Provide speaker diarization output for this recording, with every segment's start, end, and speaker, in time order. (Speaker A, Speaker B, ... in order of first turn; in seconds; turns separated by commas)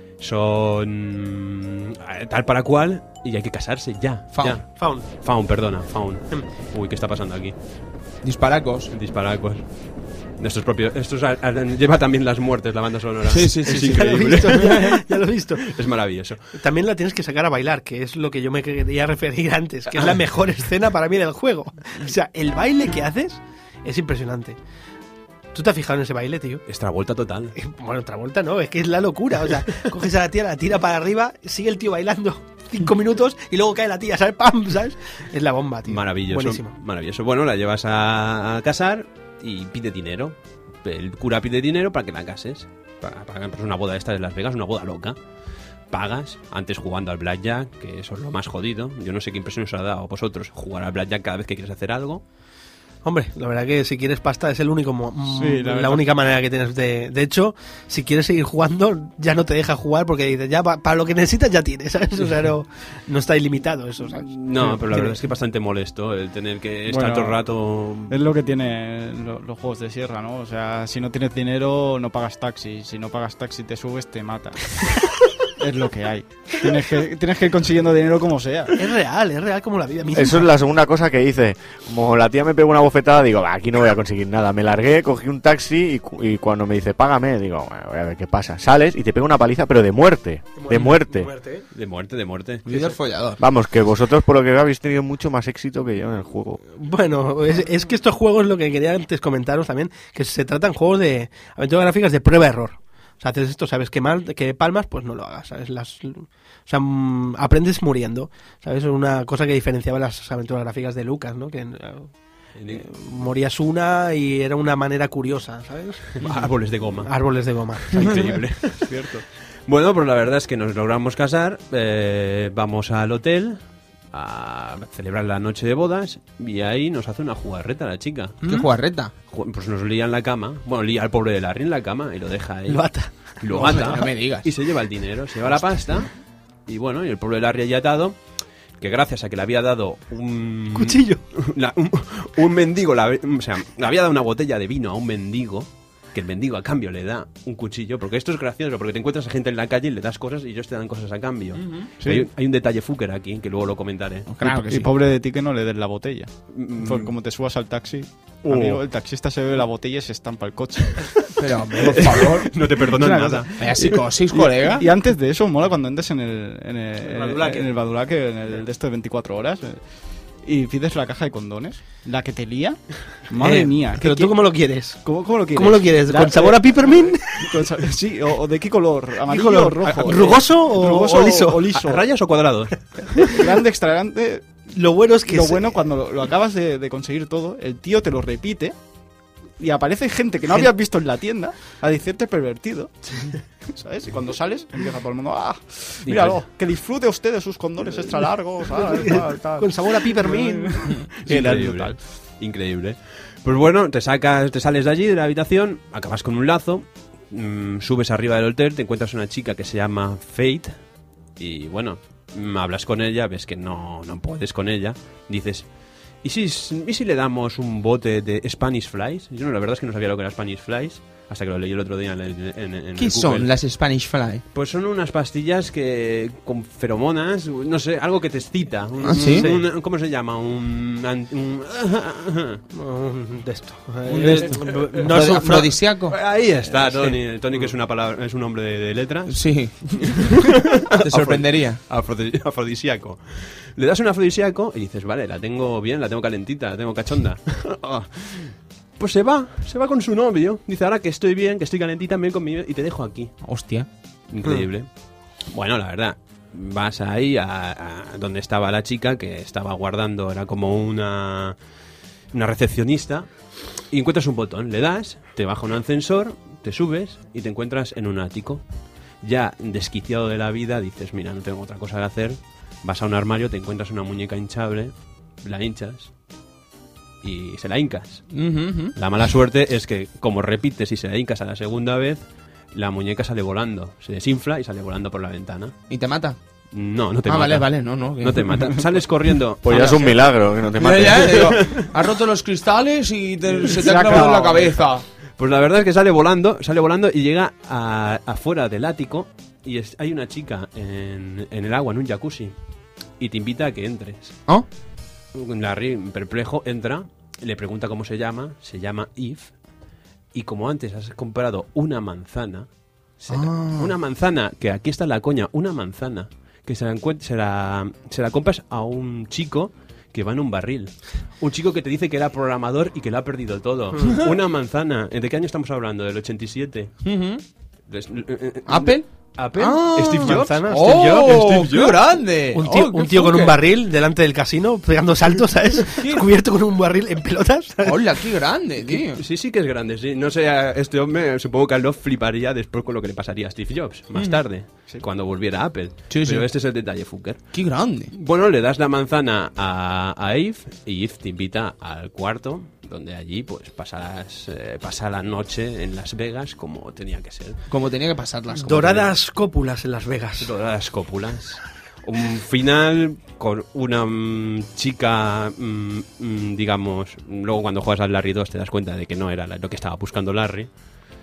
Speaker A: 0.2-7.5, Speaker B: 4.3-4.6, Speaker C: 4.8-5.1, Speaker B: 8.2-8.9, Speaker A: 8.9-15.0, Speaker B: 13.3-14.2, Speaker C: 13.7-15.7, Speaker A: 15.6-16.5, Speaker C: 16.5-24.6, Speaker C: 25.5-26.6, Speaker A: 26.7-27.6, Speaker C: 27.6-36.7, Speaker A: 35.9-45.1, Speaker A: 45.9-52.2, Speaker C: 53.0-65.2, Speaker D: 55.3-56.0, Speaker A: 64.1-68.2, Speaker D: 66.9-67.4, Speaker D: 68.1-78.8, Speaker C: 78.8-80.5, Speaker E: 80.1-91.3, Speaker C: 90.6-91.7, Speaker A: 91.7-92.6, Speaker B: 92.7-93.4, Speaker E: 93.4-96.6, Speaker C: 96.7-112.1, Speaker A: 112.5-112.8, Speaker C: 112.7-116.4, Speaker A: 116.2-117.1, Speaker C: 117.0-118.4, Speaker A: 117.9-128.7, Speaker B: 128.4-129.1, Speaker A: 129.3-136.1, Speaker C: 132.7-134.0, Speaker B: 133.5-134.5, Speaker A: 136.7-138.2, Speaker A: 138.8-154.3, Speaker C: 140.7-141.2, Speaker B: 151.6-151.9, Speaker D: 152.0-152.3, Speaker B: 154.3-154.9, Speaker D: 154.4-161.3, Speaker A: 156.5-157.1, Speaker A: 158.4-158.8, Speaker A: 160.9-161.2, Speaker B: 161.4-162.5, Speaker A: 161.8-164.0, Speaker D: 162.8-174.4, Speaker B: 163.6-164.8, Speaker A: 167.1-167.6, Speaker C: 173.4-177.6, Speaker D: 174.9-182.0, Speaker C: 179.3-181.8, Speaker A: 179.9-180.3, Speaker A: 181.7-183.2, Speaker D: 183.2-184.6, Speaker C: 184.7-185.8, Speaker D: 185.2-188.7, Speaker D: 189.6-202.0, Speaker A: 196.0-196.4, Speaker C: 198.9-201.1, Speaker A: 201.2-210.7, Speaker A: 211.4-215.7, Speaker A: 216.2-223.5, Speaker B: 223.0-224.4, Speaker A: 224.5-232.6, Speaker B: 229.1-229.5, Speaker C: 229.3-229.7, Speaker C: 232.7-235.8, Speaker A: 234.1-235.2, Speaker B: 234.2-236.2, Speaker A: 236.1-253.4, Speaker C: 236.7-237.7, Speaker B: 239.3-240.5, Speaker B: 241.0-241.8, Speaker B: 253.4-253.9, Speaker A: 254.3-254.9, Speaker A: 255.5-261.6, Speaker A: 262.3-263.3, Speaker A: 263.9-268.6, Speaker A: 269.2-276.1, Speaker A: 277.2-282.2, Speaker B: 278.3-278.9, Speaker A: 282.7-285.8, Speaker B: 285.9-286.4, Speaker A: 286.7-290.1, Speaker B: 287.2-288.7, Speaker E: 289.6-291.6, Speaker B: 289.7-290.2, Speaker B: 290.8-295.0, Speaker A: 291.1-291.9, Speaker D: 293.6-294.6, Speaker A: 293.7-294.3, Speaker A: 295.4-302.5, Speaker A: 303.2-304.4, Speaker A: 305.3-309.5, Speaker A: 310.3-312.7, Speaker A: 313.2-327.1, Speaker B: 313.3-313.9, Speaker B: 327.0-327.4, Speaker A: 327.9-332.1, Speaker B: 328.6-333.6, Speaker C: 330.2-331.3, Speaker C: 332.5-338.2, Speaker B: 337.8-339.2, Speaker A: 338.9-347.5, Speaker B: 344.1-344.4, Speaker B: 346.1-346.5, Speaker B: 347.5-348.1, Speaker A: 348.1-357.6, Speaker B: 357.7-359.1, Speaker C: 358.5-360.5, Speaker A: 360.4-370.7